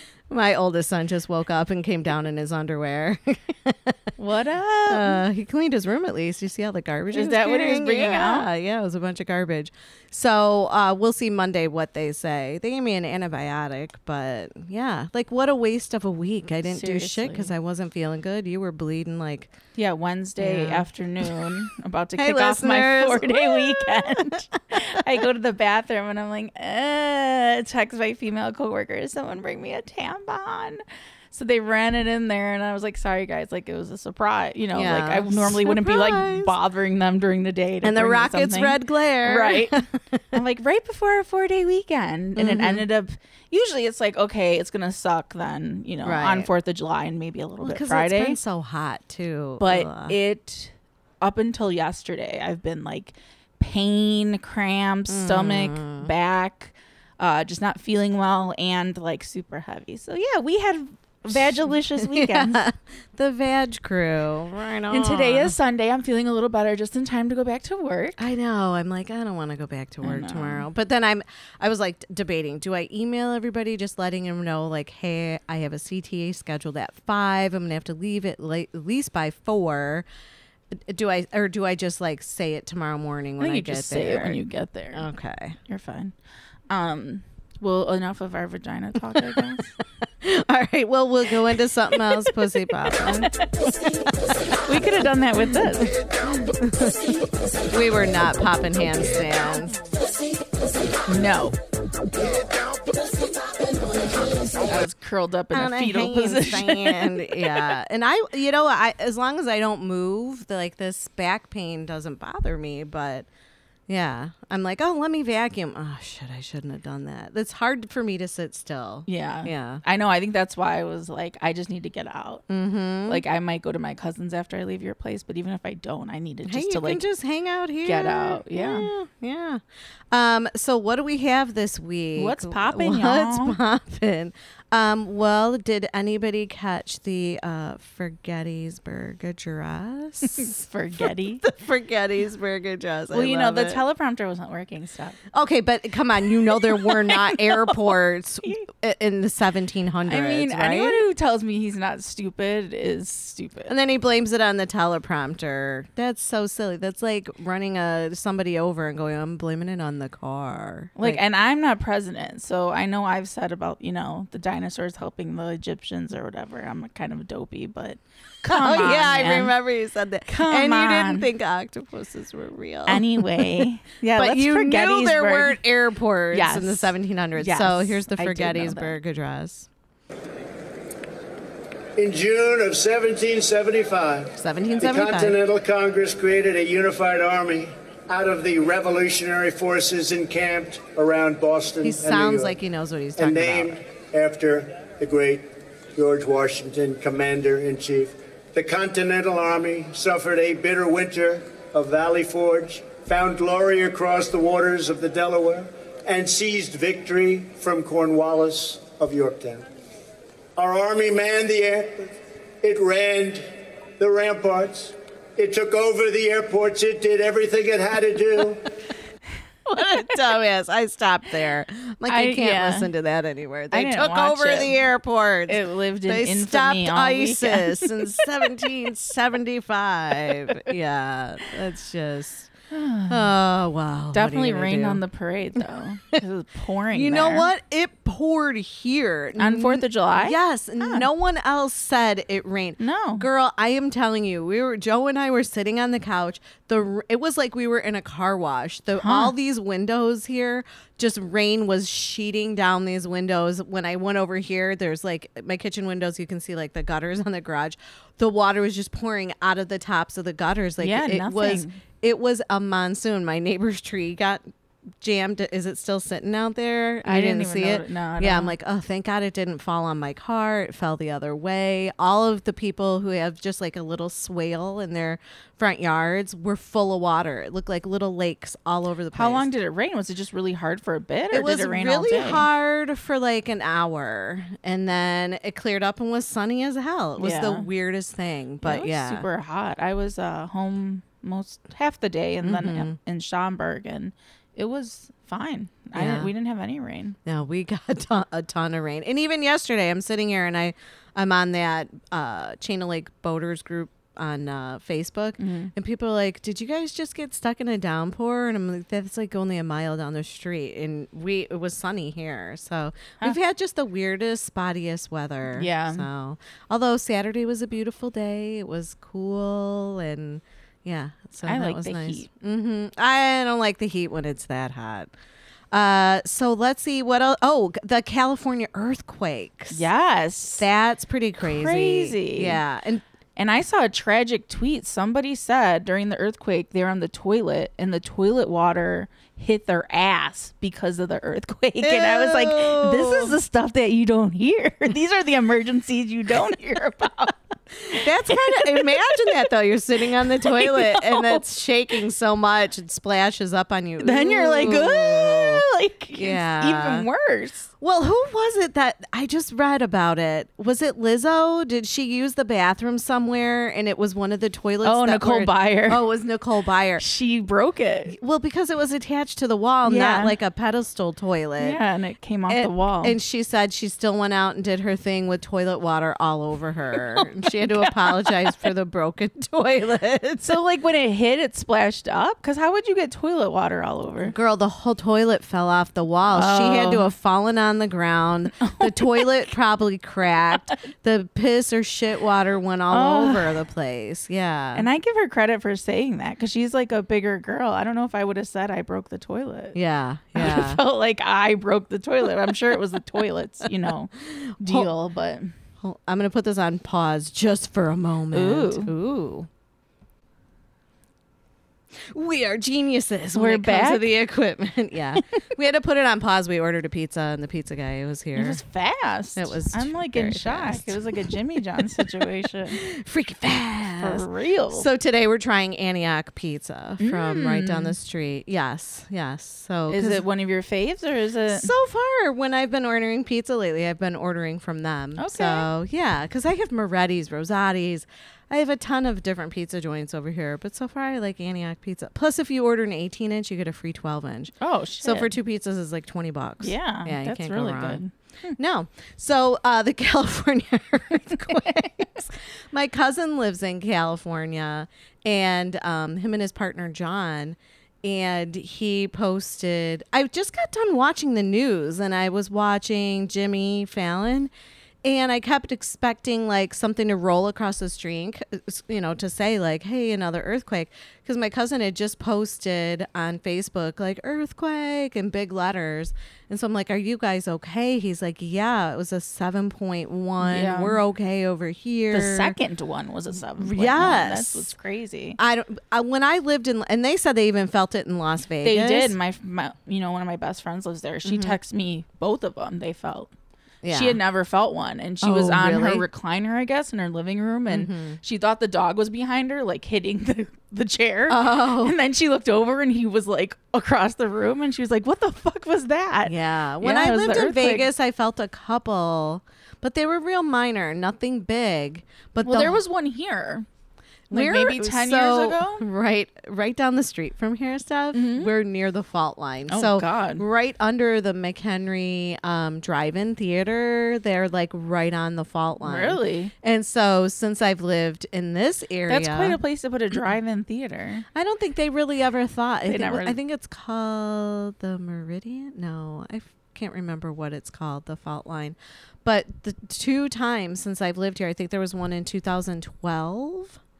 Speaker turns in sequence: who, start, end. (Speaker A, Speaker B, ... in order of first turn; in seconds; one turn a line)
Speaker A: 0.3-4.1
Speaker B: 4.2-5.2
Speaker A: 4.8-19.6
Speaker B: 7.1-8.5
Speaker B: 16.6-17.5
Speaker B: 19.8-39.8
Speaker A: 20.4-20.9
Speaker A: 22.1-24.4
Speaker A: 34.7-36.5
Speaker A: 37.8-40.4
Speaker B: 40.3-48.4
Speaker A: 42.4-42.9
Speaker A: 46.0-46.5
Speaker A: 47.6-50.2
Speaker B: 49.6-62.6
Speaker A: 55.1-56.1
Speaker A: 62.0-65.5
Speaker B: 64.9-68.3
Speaker A: 68.2-80.0
Speaker B: 70.0-70.7
Speaker A: 80.8-84.4
Speaker B: 83.4-85.0
Speaker A: 84.9-85.6
Speaker B: 85.7-86.1
Speaker B: 86.7-89.7
Speaker A: 89.1-89.4
Speaker A: 90.2-93.3
Speaker B: 93.0-93.3
Speaker B: 94.6-95.9
Speaker A: 96.4-97.1
Speaker A: 97.7-99.8
Speaker B: 101.1-101.6
Speaker B: 104.5-107.8
Speaker A: 105.5-113.3
Speaker A: 113.9-119.8
Speaker B: 119.1-122.4
Speaker A: 122.5-123.2
Speaker B: 123.1-127.0
Speaker A: 126.5-143.8
Speaker B: 127.8-128.9
Speaker B: 132.2-133.6
Speaker B: 140.3-141.4
Speaker B: 143.1-145.2
Speaker A: 145.3-151.0
Speaker B: 146.5-148.6
Speaker B: 150.1-153.7
Speaker A: 153.7-161.2
Speaker B: 161.0-169.6
Speaker A: 168.4-179.7
Speaker B: 170.3-171.3
Speaker B: 172.9-175.6
Speaker B: 176.3-178.9
Speaker C: 182.0-192.5
Speaker A: 184.3-185.4
Speaker A: 191.8-193.8
Speaker C: 193.2-209.7
Speaker C: 210.6-218.7
Speaker A: 219.7-232.5
Speaker B: 222.1-222.9
Speaker B: 223.7-224.8
Speaker B: 225.5-228.2
Speaker B: 232.7-233.3
Speaker A: 233.1-235.0
Speaker B: 234.1-237.5
Speaker A: 236.9-264.4
Speaker B: 239.4-241.1
Speaker B: 242.8-243.2
Speaker B: 249.0-249.3
Speaker B: 260.8-261.8
Speaker A: 265.0-279.5
Speaker B: 267.0-268.5
Speaker B: 279.1-282.5
Speaker A: 281.3-289.2
Speaker B: 287.2-287.7
Speaker B: 288.6-297.1
Speaker A: 292.4-292.9
Speaker A: 295.9-296.3
Speaker A: 297.2-325.1
Speaker B: 305.4-305.7
Speaker B: 315.5-316.1
Speaker B: 321.4-322.3
Speaker A: 325.7-329.9
Speaker B: 329.7-330.6
Speaker A: 330.6-333.0
Speaker B: 331.4-332.6
Speaker B: 333.4-347.4
Speaker A: 341.8-343.4
Speaker A: 347.9-357.1
Speaker B: 347.9-349.4
Speaker B: 350.2-351.4
Speaker B: 354.0-357.7
Speaker A: 357.8-367.0
Speaker B: 364.8-366.0
Speaker B: 367.0-368.2
Speaker A: 368.1-371.8
Speaker B: 369.8-370.3
Speaker B: 371.6-373.1
Speaker A: 372.5-380.6
Speaker B: 377.1-378.6
Speaker B: 380.4-384.3
Speaker A: 384.2-394.9
Speaker B: 386.3-387.1
Speaker B: 388.6-389.3
Speaker B: 392.9-393.6
Speaker B: 394.7-399.8
Speaker A: 399.7-400.8
Speaker B: 400.4-405.5
Speaker A: 404.6-404.9
Speaker A: 405.8-409.5
Speaker B: 408.3-408.9
Speaker A: 412.1-418.6
Speaker B: 413.3-414.1
Speaker B: 418.3-422.8
Speaker A: 419.3-421.0
Speaker A: 422.7-430.2
Speaker B: 424.0-424.9
Speaker B: 427.0-427.9
Speaker B: 429.9-431.7
Speaker A: 431.5-448.0
Speaker B: 435.2-435.7
Speaker B: 444.6-445.3
Speaker B: 446.6-448.6
Speaker A: 448.6-464.5
Speaker A: 465.0-482.6
Speaker B: 480.4-481.0
Speaker B: 482.1-485.4
Speaker A: 483.6-484.7
Speaker A: 485.4-489.1
Speaker B: 488.6-493.3
Speaker A: 491.2-491.6
Speaker A: 493.8-494.2
Speaker B: 493.9-507.9
Speaker A: 495.2-496.1
Speaker A: 497.7-498.2
Speaker A: 501.3-501.9
Speaker A: 506.2-512.8
Speaker B: 512.4-513.6
Speaker A: 514.3-529.6
Speaker B: 514.3-515.8
Speaker B: 518.1-518.5
Speaker B: 519.7-520.4
Speaker B: 525.8-526.5
Speaker B: 529.1-531.2
Speaker A: 531.3-543.8
Speaker B: 532.9-533.4